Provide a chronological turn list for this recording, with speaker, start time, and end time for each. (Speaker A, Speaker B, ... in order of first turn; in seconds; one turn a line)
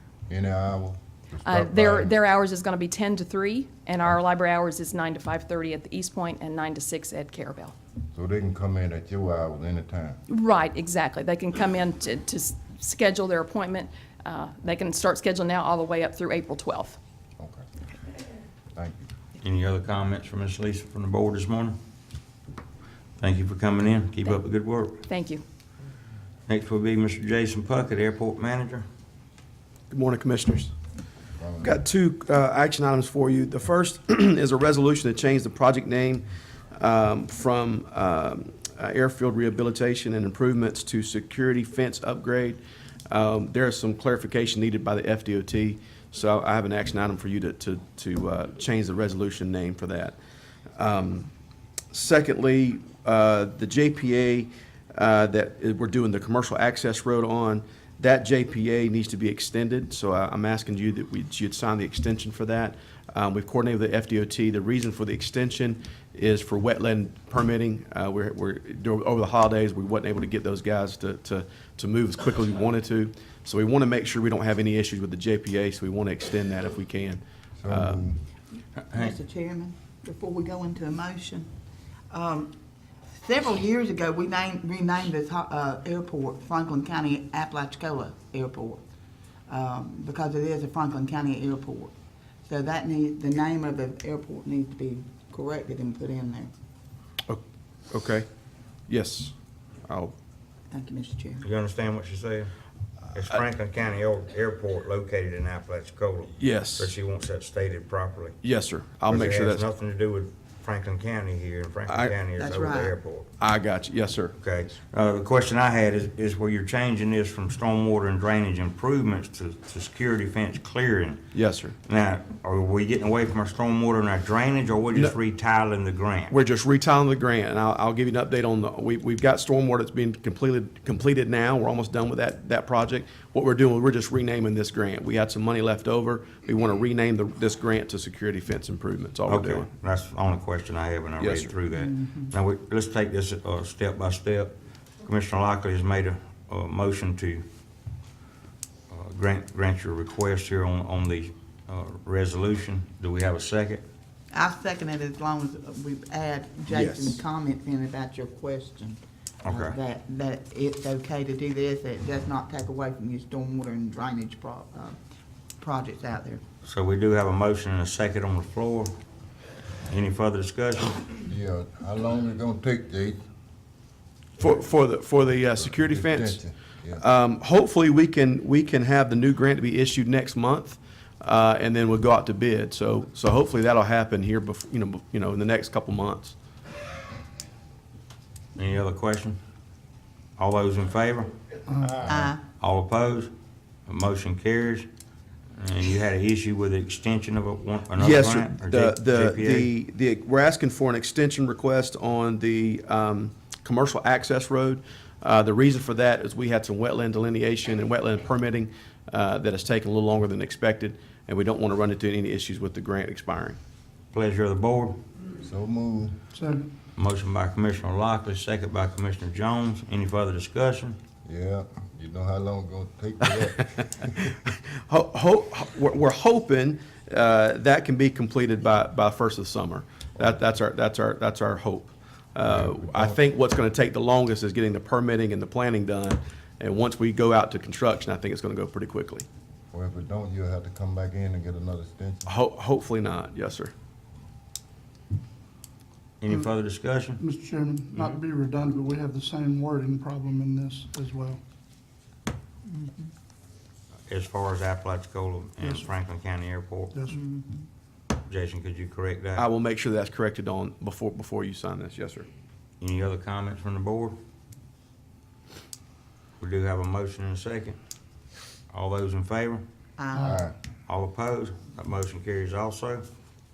Speaker A: 0.3-2.1
Speaker B: 1.4-7.7
Speaker A: 8.1-10.2
Speaker B: 10.3-17.0
Speaker A: 17.4-17.6
Speaker A: 18.7-19.0
Speaker C: 19.4-21.8
Speaker C: 23.2-25.0
Speaker B: 25.1-25.4
Speaker C: 26.5-28.8
Speaker D: 29.9-30.7
Speaker A: 31.4-31.7
Speaker D: 31.6-50.2
Speaker D: 50.8-51.3
Speaker D: 51.9-78.0
Speaker A: 77.6-78.2
Speaker E: 78.9-81.5
Speaker E: 82.1-82.5
Speaker E: 83.1-88.8
Speaker E: 89.5-91.9
Speaker E: 92.5-96.5
Speaker D: 97.3-98.2
Speaker D: 98.9-99.3
Speaker D: 99.9-100.1
Speaker E: 100.7-101.5
Speaker C: 101.4-102.5
Speaker C: 103.1-108.4
Speaker D: 106.4-106.9
Speaker D: 108.4-109.6
Speaker C: 109.0-113.3
Speaker D: 111.9-112.2
Speaker E: 112.3-113.0
Speaker D: 113.4-114.3
Speaker C: 114.4-121.2
Speaker D: 121.3-121.8
Speaker C: 121.8-126.3
Speaker D: 126.3-139.7
Speaker C: 139.2-147.4
Speaker D: 141.2-141.5
Speaker E: 141.7-142.2
Speaker C: 148.9-153.8
Speaker E: 154.3-165.0
Speaker D: 156.7-157.2
Speaker C: 159.4-159.8
Speaker E: 165.6-166.4
Speaker C: 166.6-168.9
Speaker C: 169.9-171.1
Speaker A: 171.2-173.2
Speaker D: 174.4-176.4
Speaker A: 175.7-177.0
Speaker D: 177.0-186.3
Speaker C: 188.6-189.4
Speaker C: 190.4-191.3
Speaker E: 192.0-192.4
Speaker C: 192.6-193.3
Speaker C: 193.9-194.9
Speaker C: 195.6-199.7
Speaker D: 197.9-213.6
Speaker C: 214.1-215.0
Speaker A: 215.4-216.2
Speaker F: 216.3-216.7
Speaker C: 216.9-221.0
Speaker A: 221.2-224.0
Speaker D: 224.2-239.2
Speaker A: 232.4-233.2
Speaker A: 239.7-242.3
Speaker D: 242.2-243.7
Speaker C: 246.2-247.2
Speaker F: 247.2-251.4
Speaker E: 252.7-253.1
Speaker C: 254.1-257.0
Speaker E: 257.1-257.6
Speaker C: 258.3-259.5
Speaker D: 259.3-262.3
Speaker C: 262.8-264.1
Speaker C: 266.4-267.8
Speaker C: 268.7-269.6
Speaker E: 270.0-270.4
Speaker A: 270.2-270.5
Speaker C: 270.9-273.0